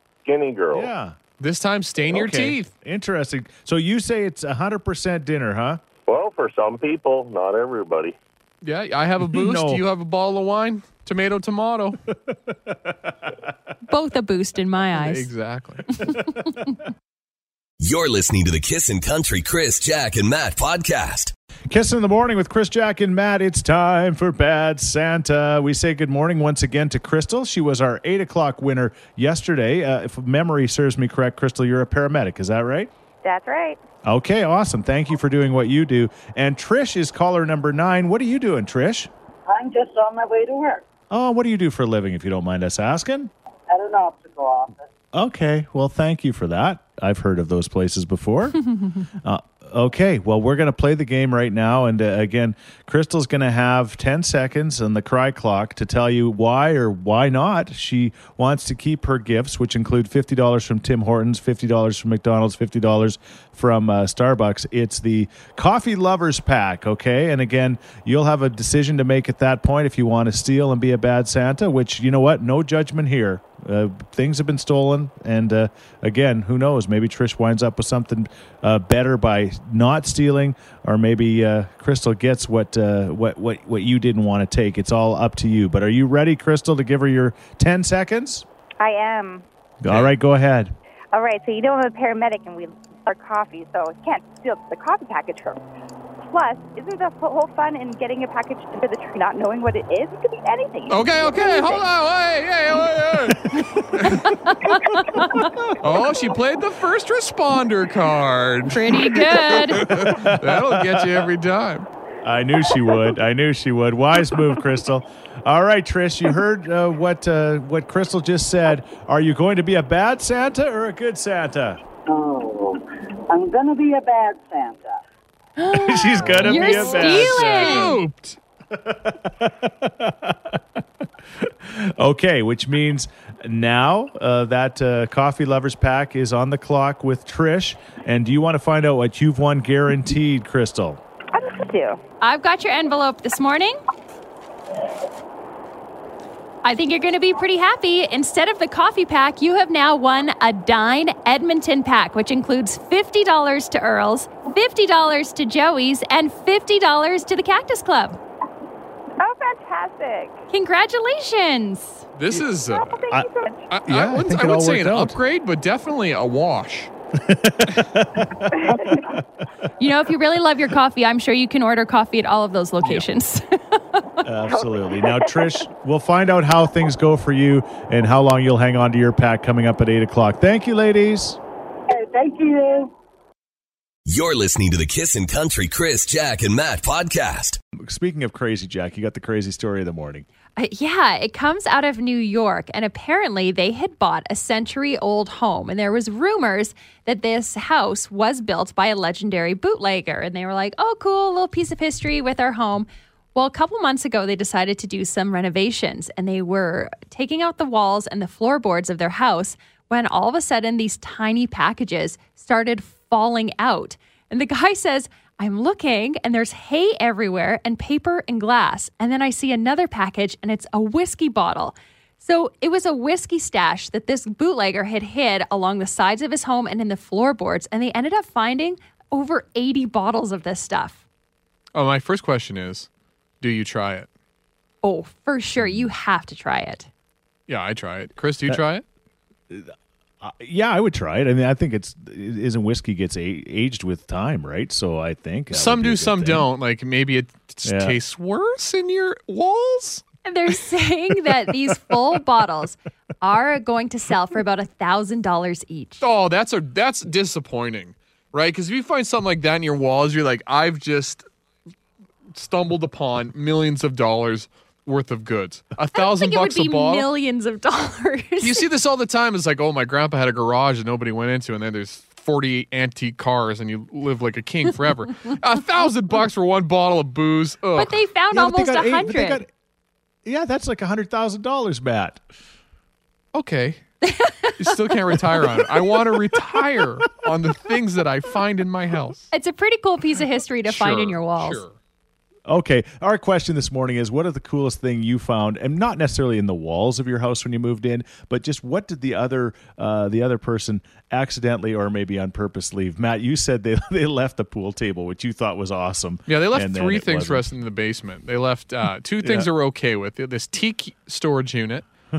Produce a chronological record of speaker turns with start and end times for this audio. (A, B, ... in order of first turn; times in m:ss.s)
0:00.2-0:00.9 A
0:00.7-0:01.2 B
0:01.4-0:02.7 C
0:02.1-0:05.8 B
0:06.1-0:08.1 A
0:08.6-0:12.0 C
0:09.2-0:09.8 B
0:13.9-0:15.3 D
0:14.9-0:15.9 C
0:16.0-0:16.8 D
0:17.8-0:21.3 E
0:21.7-0:32.9 B
0:33.2-0:33.8 F
0:34.0-0:39.1 B
0:39.5-0:40.8 G
0:41.1-0:43.3 B
0:43.7-0:44.9 G
0:45.1-0:48.6 B
0:49.2-1:28.4 B
1:28.8-1:29.4 F
1:29.8-1:30.7 B
1:31.1-1:35.6 F
1:36.3-1:41.9 F
1:40.9-1:44.3 C
1:44.1-1:45.4 D
1:45.3-1:45.7 B
1:45.8-1:51.9 C
1:48.7-1:49.9 D
1:49.7-1:51.3 B
1:52.2-2:01.8 B
2:02.1-2:05.0 G
2:05.6-2:08.0 D
2:05.7-2:08.0 B
2:06.2-2:08.4 C
2:08.7-2:10.6 B
2:11.4-2:21.0 B
2:21.3-2:22.0 F
2:22.2-2:23.8 D
2:26.6-2:38.2 D
2:39.2-2:40.4 F
2:40.5-2:42.0 D
2:42.2-2:43.0 C
2:42.7-2:43.7 F
2:43.7-2:46.9 C
2:43.8-2:45.2 B
2:47.2-2:49.2 B
2:48.6-2:49.0 F
2:49.8-2:54.2 D
2:54.2-3:01.4 B
2:54.5-2:55.5 F
3:01.9-3:02.9 G
3:04.0-3:07.6 E
3:07.8-3:10.2 B
3:10.6-3:51.0 D
3:51.7-3:52.9 C
3:53.4-3:54.1 C
3:54.8-3:56.9 D
3:57.5-3:58.8 C
3:59.5-4:06.5 B
4:05.5-4:10.0 C
4:07.6-4:08.0 B
4:10.2-4:16.0 D
4:16.0-4:21.2 C
4:22.3-4:27.1 C
4:25.9-4:28.6 D
4:28.4-4:38.0 C
4:37.8-4:39.4 D
4:38.3-4:39.5 B
4:40.2-4:42.2 B
4:43.3-4:43.8 C
4:44.0-4:44.5 D
4:44.6-4:49.3 C
4:49.3-4:51.6 D
4:50.6-4:51.8 C
4:52.5-5:07.5 B
5:06.3-5:11.8 C
5:09.2-5:09.5 B